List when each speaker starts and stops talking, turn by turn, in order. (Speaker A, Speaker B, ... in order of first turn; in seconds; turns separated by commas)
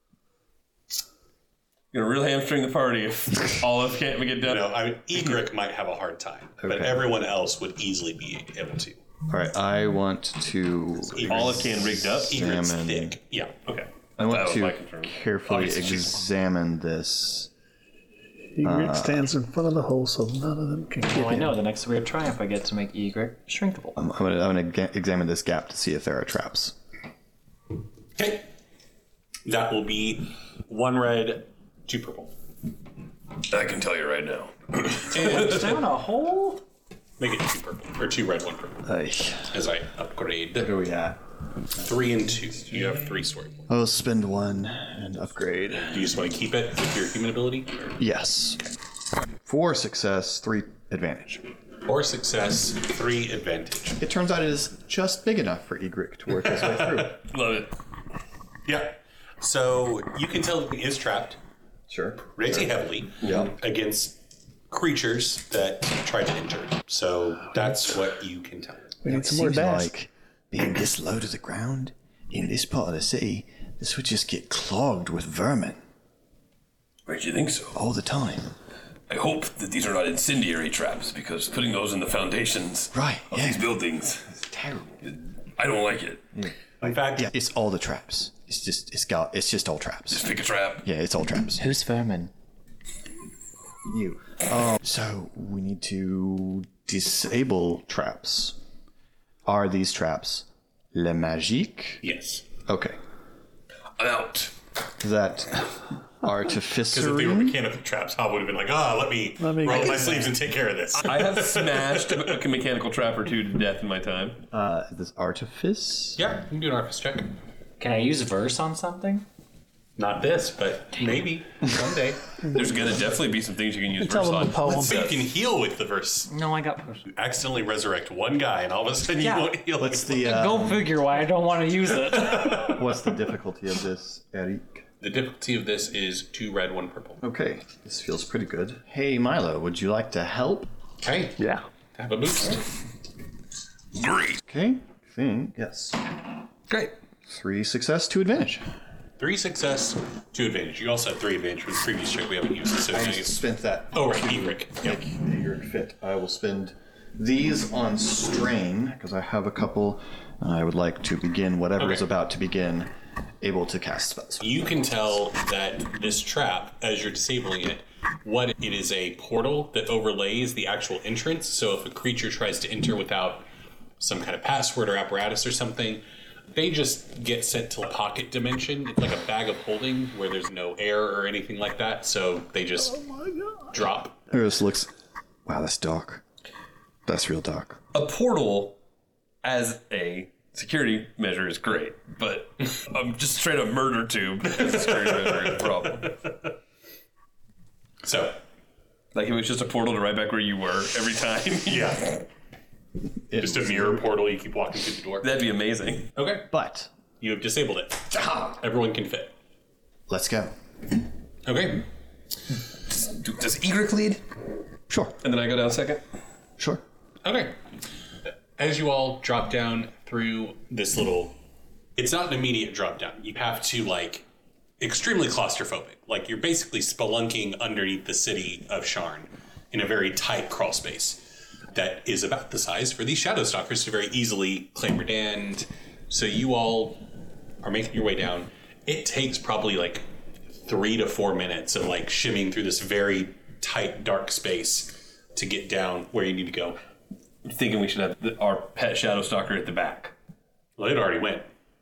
Speaker A: 1.9-4.7, Speaker B: 4.4-9.0, Speaker C: 6.6-7.1, Speaker C: 9.3-13.2, Speaker B: 11.1-13.6, Speaker A: 11.3-12.4, Speaker A: 13.7-16.0, Speaker C: 14.2-17.5, Speaker D: 18.6-21.6, Speaker C: 18.6-19.3, Speaker E: 21.1-24.0, Speaker C: 24.0-26.8, Speaker B: 28.2-28.5, Speaker B: 29.4-32.3, Speaker A: 33.5-35.6, Speaker B: 35.1-35.6, Speaker E: 35.1-36.6, Speaker B: 37.2-38.9, Speaker C: 38.8-39.5, Speaker B: 39.5-40.7, Speaker C: 40.6-41.2, Speaker B: 41.8-43.6, Speaker C: 43.7-46.2, Speaker B: 45.9-48.0, Speaker C: 48.0-48.6, Speaker C: 49.4-51.5, Speaker B: 51.8-54.0, Speaker C: 54.0-57.2, Speaker B: 56.6-56.9, Speaker A: 57.3-57.7, Speaker B: 58.7-61.4, Speaker C: 61.9-62.7, Speaker B: 62.4-68.9, Speaker C: 63.2-63.5, Speaker D: 69.0-69.9, Speaker C: 69.0-75.8, Speaker A: 77.1-77.8, Speaker C: 77.7-78.5, Speaker A: 79.1-84.4, Speaker C: 82.9-83.7, Speaker C: 84.4-85.0, Speaker A: 85.0-86.4, Speaker C: 86.3-90.3, Speaker B: 86.8-87.3, Speaker A: 90.1-90.9, Speaker C: 90.8-91.8, Speaker E: 91.6-92.3, Speaker C: 93.9-98.6, Speaker C: 99.5-102.0, Speaker B: 102.0-102.5, Speaker C: 102.7-103.0, Speaker A: 104.0-104.5, Speaker C: 105.0-107.6, Speaker B: 106.9-112.4, Speaker D: 109.4-110.3, Speaker A: 111.0-114.4, Speaker C: 114.5-116.2, Speaker B: 116.2-117.3, Speaker E: 117.8-119.3, Speaker B: 120.0-122.2, Speaker A: 122.4-125.1, Speaker D: 124.0-125.2, Speaker B: 124.7-126.3, Speaker E: 126.3-127.1, Speaker B: 127.1-130.6, Speaker E: 129.2-129.5, Speaker C: 129.8-130.9, Speaker E: 130.2-132.8, Speaker B: 132.1-132.8, Speaker C: 132.5-134.8, Speaker B: 135.0-137.2, Speaker C: 137.2-140.7, Speaker B: 141.0-141.4, Speaker D: 141.4-141.7, Speaker B: 141.9-142.7, Speaker A: 143.9-144.4, Speaker C: 144.5-146.0, Speaker C: 147.3-148.7, Speaker B: 149.2-155.0, Speaker C: 152.9-164.7, Speaker B: 161.8-162.1, Speaker B: 164.4-173.5, Speaker B: 174.0-176.0, Speaker B: 176.5-183.1, Speaker B: 183.7-184.2, Speaker C: 184.3-184.9, Speaker C: 185.4-186.2, Speaker C: 187.1-187.8, Speaker A: 187.9-188.8, Speaker A: 189.4-196.2, Speaker B: 194.6-196.3, Speaker B: 198.0-198.4, Speaker A: 199.1-202.1, Speaker B: 201.7-202.2, Speaker C: 203.3-204.0, Speaker B: 203.3-205.3, Speaker A: 205.2-206.1, Speaker B: 206.2-206.5, Speaker C: 206.5-206.9, Speaker B: 207.2-209.3, Speaker C: 208.1-208.5, Speaker C: 210.1-210.5, Speaker B: 211.5-211.9, Speaker A: 212.9-214.2, Speaker C: 214.9-215.2, Speaker A: 215.2-216.0, Speaker B: 217.2-217.6, Speaker B: 218.6-221.4, Speaker B: 222.0-224.2, Speaker B: 224.8-237.1, Speaker B: 237.6-240.1, Speaker B: 240.6-246.8, Speaker A: 247.4-250.1, Speaker B: 250.8-251.5